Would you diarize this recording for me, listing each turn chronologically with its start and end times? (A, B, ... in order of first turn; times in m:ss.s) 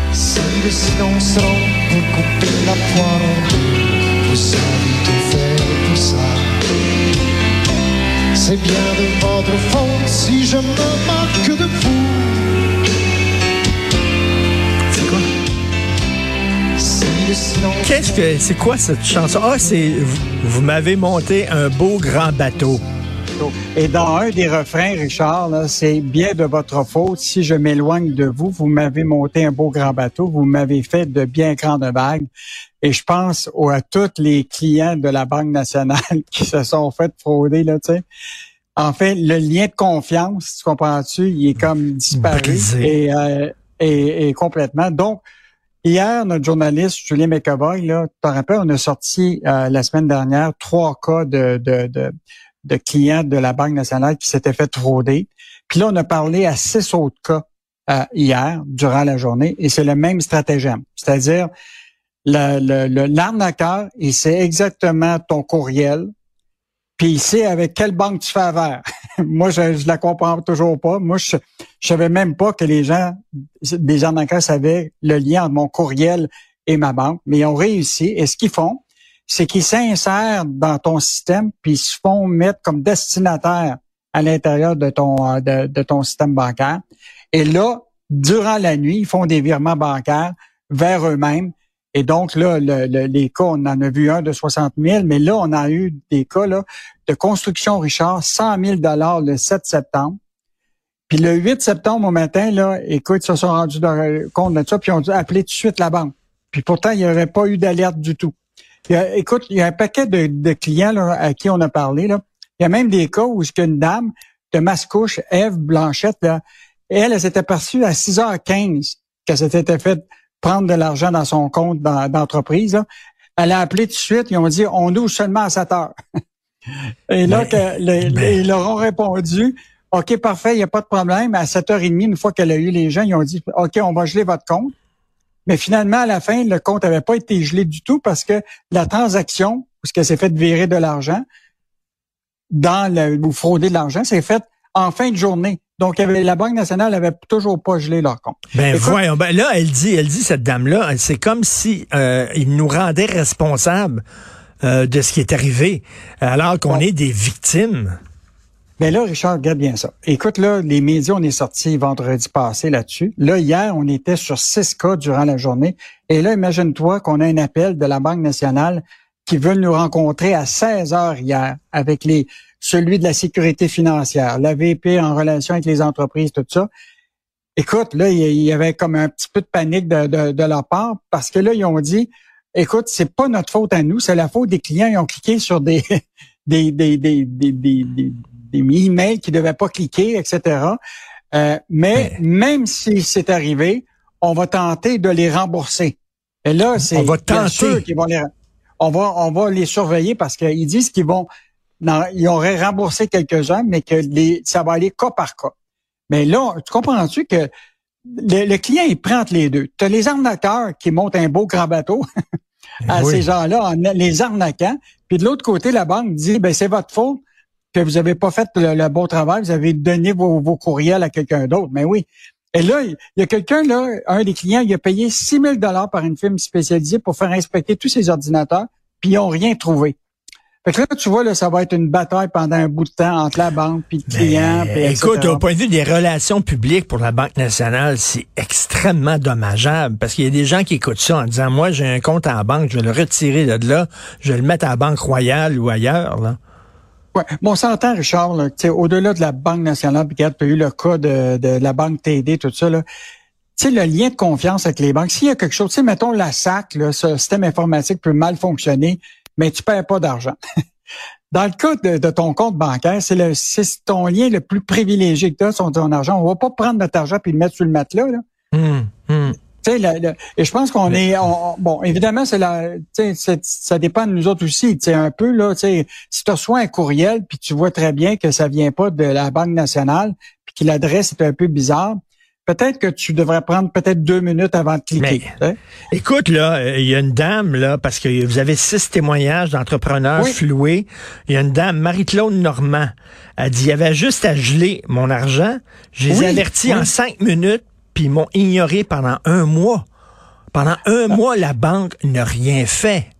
0:00.1-0:06.7 A
0:08.3-0:12.7 A
0:14.9-0:15.2 B
0:16.8-0:18.0 A
0:17.8-0:22.8 B
0:23.4-0:32.2 C
0:32.8-0:38.0 C
0:38.8-0:45.2 C
0:42.1-0:42.9 B
0:45.8-0:52.1 C
0:52.6-1:01.5 C
1:02.2-1:06.1 C
1:07.0-1:26.8 C
1:27.3-1:40.2 C
1:41.1-1:48.3 C
1:48.9-2:02.8 C
2:03.4-2:05.9 C
2:07.1-2:14.7 C
2:07.3-2:08.4 B
2:15.4-2:21.2 C
2:22.5-2:29.0 C
2:28.5-2:34.0 B
2:34.6-2:38.0 B
2:38.8-2:56.7 C
2:57.6-3:05.8 C
3:06.4-3:10.8 C
3:11.3-3:18.2 C
3:16.8-3:17.8 B
3:18.8-3:21.3 C
3:21.8-3:25.5 C
3:26.1-3:27.5 C
3:28.0-3:32.0 C
3:32.8-3:33.2 B
3:32.9-3:37.2 C
3:37.7-3:50.0 C
3:50.6-3:55.4 C
3:54.1-4:06.4 B
4:07.1-4:12.8 C
4:13.6-4:20.4 C
4:21.3-4:28.2 C
4:28.5-4:29.4 B
4:29.6-4:45.6 C
4:45.0-4:45.3 B
4:45.9-4:59.8 B
4:56.1-4:56.9 C
5:00.5-5:03.1 B